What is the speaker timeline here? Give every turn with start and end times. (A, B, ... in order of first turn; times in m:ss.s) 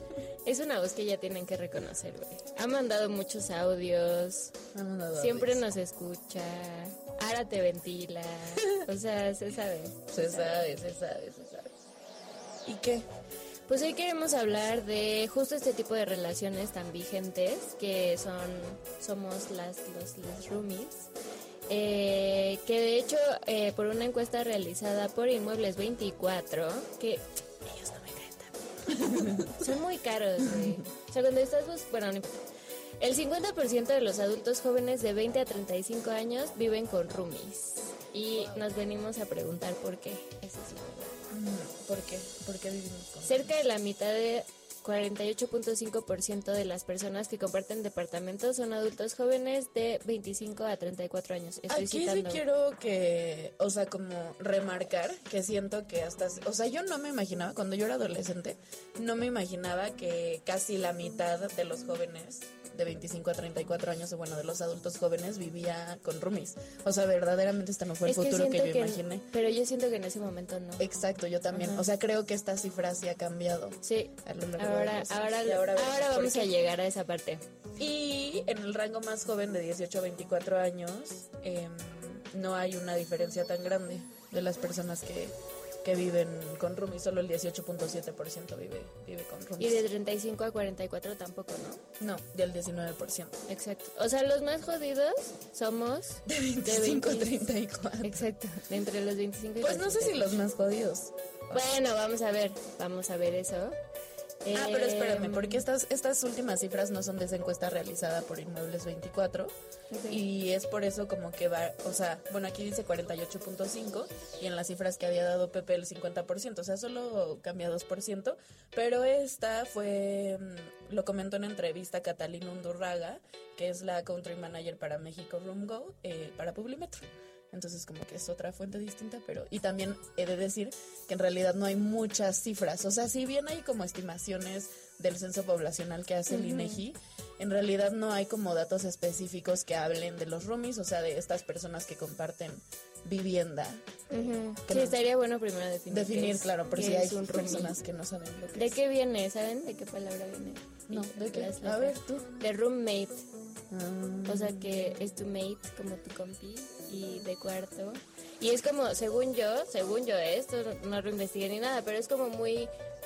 0:00.4-0:04.5 A
0:04.7-0:05.6 B
0:05.2-0:10.6 A
0:10.1-0:11.7 B
0:12.6-0:13.1 B
0:13.7-0:21.1 A
0:21.7-0:28.3 A
0:27.8-0:28.2 B
0:28.9-0:29.6 B
0:29.1-0:32.4 A
0:30.4-0:30.8 B
0:33.0-0:41.2 A
0:38.3-0:38.6 B
0:41.3-0:43.5 B
0:43.2-0:52.4 A
0:51.7-1:09.2 B
1:08.0-1:10.9 A
1:10.8-1:16.5 B
1:11.5-1:11.9 A
1:13.8-1:17.4 A
1:17.8-1:29.8 B
1:29.6-1:31.8 A
1:32.0-1:33.4 B
1:33.5-1:37.4 A
1:36.3-1:38.3 B
1:38.0-1:40.4 A
1:39.6-1:41.7 B
1:41.5-1:43.8 A
1:44.4-1:45.6 A
1:44.5-1:49.6 B
1:49.9-1:50.2 A
1:50.1-2:25.0 B
2:16.3-2:16.8 A
2:24.1-2:27.8 A
2:25.9-2:28.8 B
2:28.6-2:33.2 A
2:30.9-2:32.4 B
2:33.7-2:35.0 B
2:34.3-2:42.7 A